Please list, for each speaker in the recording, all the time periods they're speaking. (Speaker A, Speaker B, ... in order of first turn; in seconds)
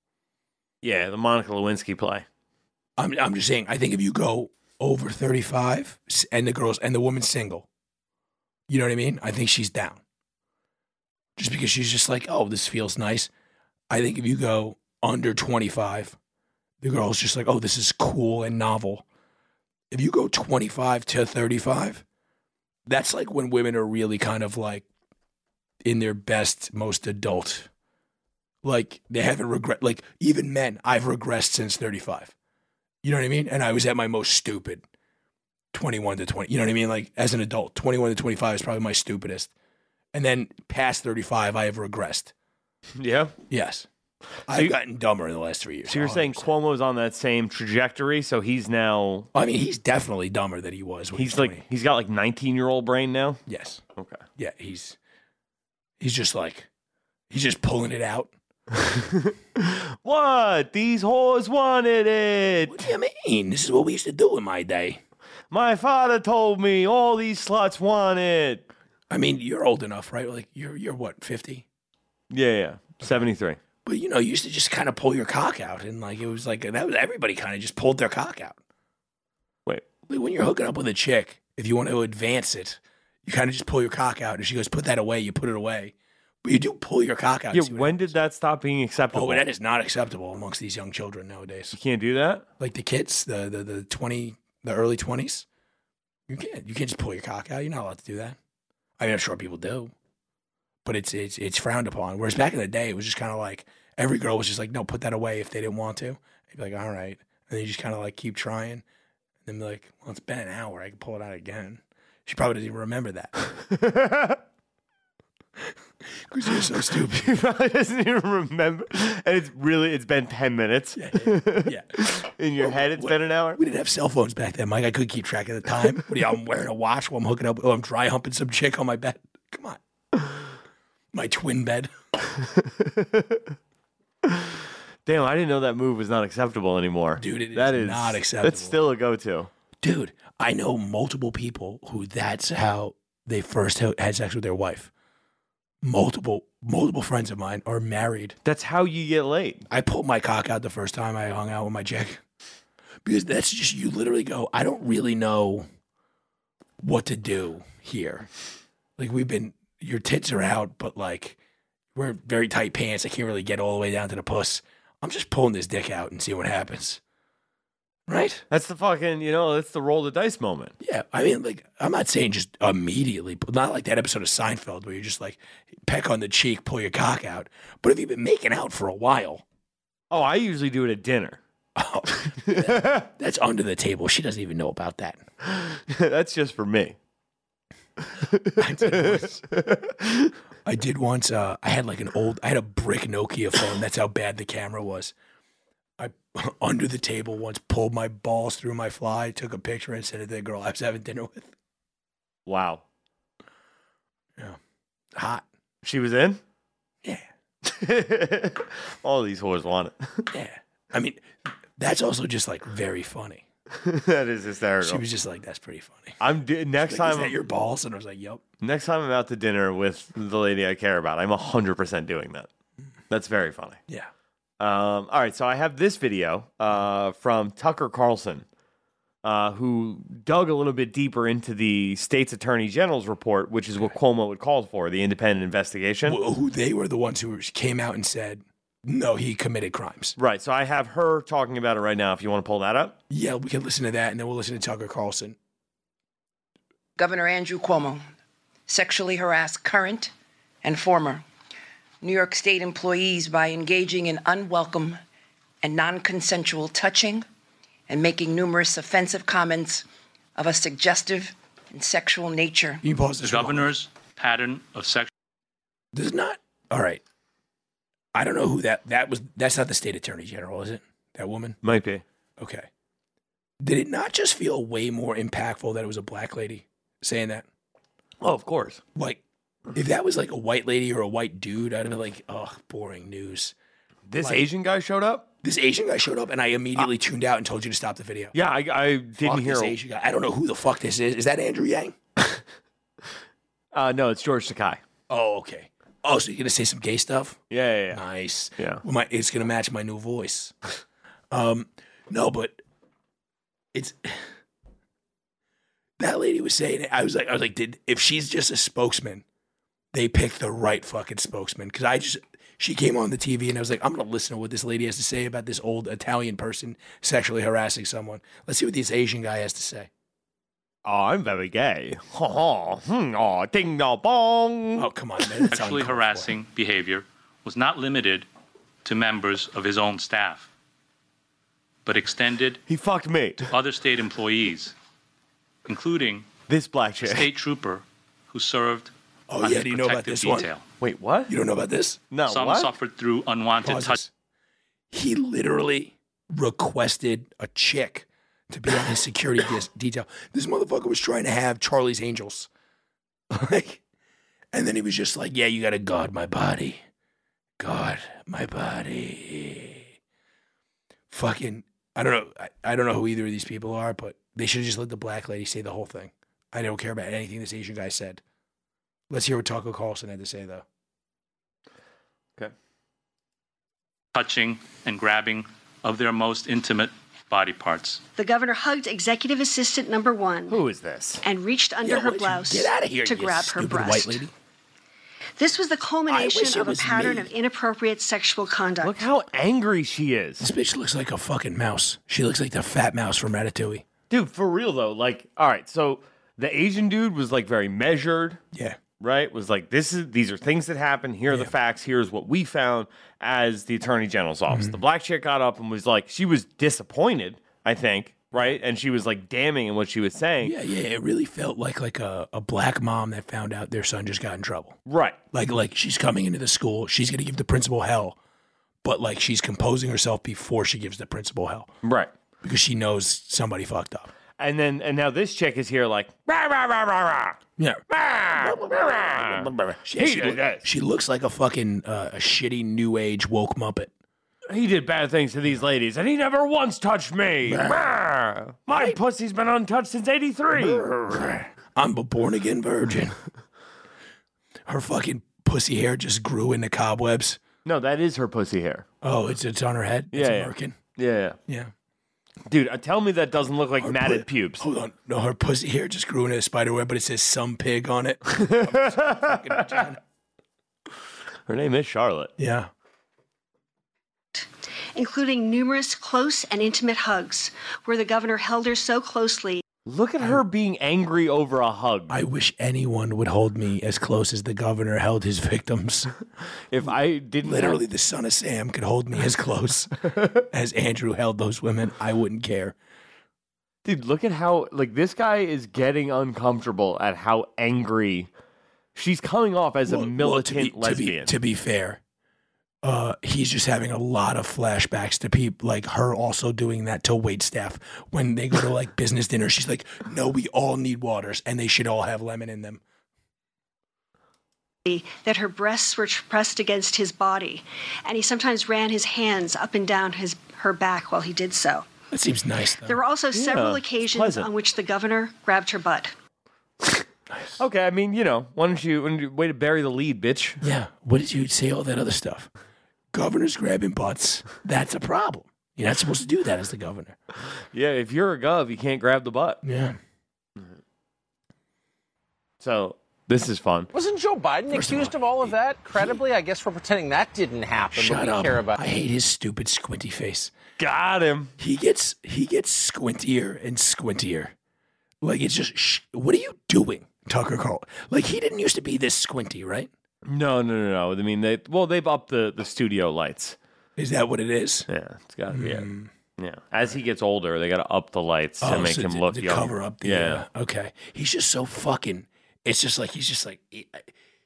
Speaker A: 0.8-2.2, 43.0-43.4, 45.9-49.3, 51.1-53.4, 54.0-54.2, 58.7-62.9, 65.5-68.7, 72.3-73.6, 87.5-89.4, 91.7-92.4, 113.5-114.4, 117.1-123.6, 132.4-133.5, 134.2-139.5, 148.4-149.7, 168.5-170.7, 180.1-181.4, 182.3-183.1, 185.4-187.0, 188.0-190.3, 202.4-202.8, 205.8-206.4, 207.6-210.3, 213.7-215.0, 216.2-217.4, 218.6-222.5, 223.1-223.8, 224.6-228.4, 229.2-236.2, 240.2-243.0, 271.6-272.0, 278.2-278.8, 284.1-285.2, 288.3-289.8, 293.7-294.8, 297.5-298.0, 320.8-324.9, 332.7-333.5, 336.5-337.3, 340.8-341.3, 342.1-342.7, 380.5-381.2, 388.8-390.5, 394.1-398.4, 399.0-410.5, 414.9-415.2, 421.8-422.1, 424.4-427.4, 427.9-430.6, 434.5-440.9, 447.6-448.9, 450.1-451.4, 452.5-454.6, 458.3-459.8, 461.5-462.3, 469.9-472.2, 476.7-477.8, 483.8-488.3, 488.9-491.3, 513.3-514.5, 517.6-520.6, 527.5-529.6, 532.6-533.9, 540.8-541.5, 550.2-553.6, 554.9-560.4
Speaker B: 3.0-7.7, 8.7-10.0, 11.4-13.3, 13.9-16.2, 16.8-19.0, 19.9-22.0, 22.9-24.9, 25.8-27.7, 28.6-32.3, 33.0-34.8, 35.7-39.5, 40.1-42.3, 43.5-43.9, 44.5-46.5, 49.3-51.6, 53.5-53.8, 54.4-55.0, 56.0-56.7, 57.3-58.3, 62.6-65.0, 69.1-71.7, 73.8-78.6, 80.1-88.1, 89.1-91.8, 92.6-95.5, 96.3-98.4, 99.0-99.9, 100.8-108.8, 109.4-113.3, 116.2-117.3, 120.9-121.9, 122.6-129.8, 131.1-131.9, 137.2-138.8, 139.8-144.9, 145.8-148.4, 149.7-152.2, 153.0-155.6, 156.8-158.3, 159.0-161.4, 161.9-167.0, 168.1-168.4, 170.8-179.4, 181.8-185.2, 188.6-189.4, 190.6-195.1, 196.0-201.5, 205.1-205.4, 210.3-213.4, 214.8-216.2, 216.8-218.4, 236.0-240.2, 243.1-245.4, 262.8-263.7, 265.9-267.0, 268.1-271.6, 272.4-272.7, 273.6-277.4, 278.9-279.2, 279.7-283.5, 284.2-284.4, 285.4-288.3, 289.2-291.9, 295.1-297.4, 297.9-300.5, 301.3-302.6, 303.7-304.3, 306.0-309.2, 309.9-319.9, 324.8-326.3, 339.3-340.5, 341.3-342.0, 343.6-344.1, 344.9-352.5, 353.3-353.8, 354.5-356.8, 357.6-359.9, 361.1-368.2, 369.1-370.6, 381.8-384.3, 386.1-387.3, 390.4-393.8, 398.5-398.8, 404.5-404.8, 410.4-414.8, 415.3-418.2, 418.8-421.7, 422.4-424.1, 427.6-433.9, 437.4-437.8, 438.7-439.0, 440.5-443.2, 444.6-447.4, 449.0-450.8, 453.8-460.0, 462.4-462.7, 472.1-476.1, 477.4-482.8, 489.9-492.0, 492.8-502.8, 512.1-513.0, 520.6-522.5, 523.1-527.1, 529.6-530.0, 534.7-536.0, 537.9-540.5, 541.6-544.5, 545.2-549.9, 554.0-554.9, 555.5-556.1, 558.6-564.1
Speaker C: 247.0-248.0, 248.7-250.1, 250.6-251.2, 252.0-255.0, 255.6-257.2, 257.9-262.8
Speaker D: 263.2-265.1, 325.5-328.3, 328.8-330.5, 331.8-332.6, 333.5-334.7, 335.6-336.3, 337.0-340.6, 342.2-344.0, 374.1-378.0
Speaker E: 378.1-380.6, 381.2-384.3, 385.4-389.1, 464.3-469.6, 504.9-511.9, 512.9-516.1
Speaker F: 533.9-538.8